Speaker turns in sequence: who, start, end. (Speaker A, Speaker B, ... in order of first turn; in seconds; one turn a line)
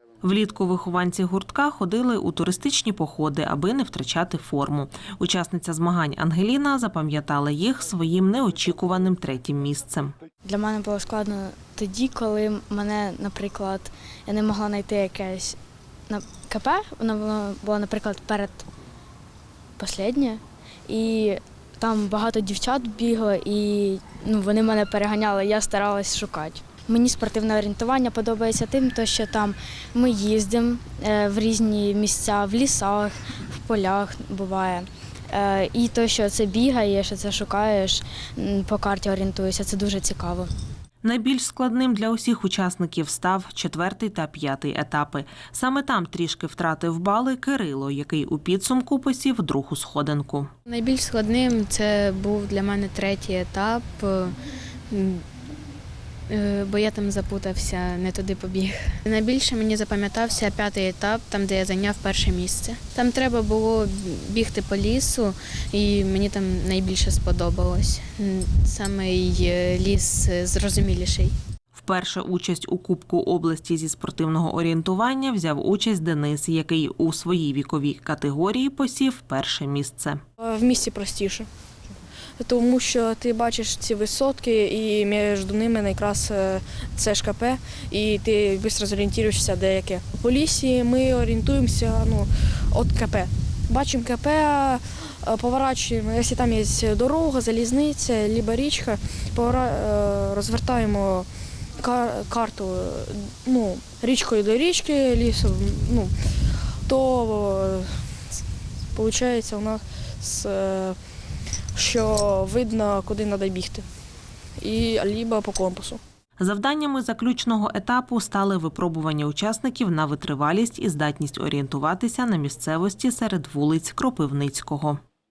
Speaker A: 0.2-10.1
Speaker B: 10.4-15.6
Speaker B: 16.1-18.7
Speaker B: 19.8-40.5
Speaker A: 41.0-50.5
Speaker C: 50.7-54.3
Speaker C: 54.9-55.2
Speaker C: 56.3-71.3
Speaker A: 71.8-80.2
Speaker D: 80.4-81.5
Speaker D: 82.4-106.1
Speaker D: 106.9-108.0
Speaker D: 108.9-111.0
Speaker D: 111.7-113.9
Speaker D: 114.6-116.0
Speaker A: 116.4-125.0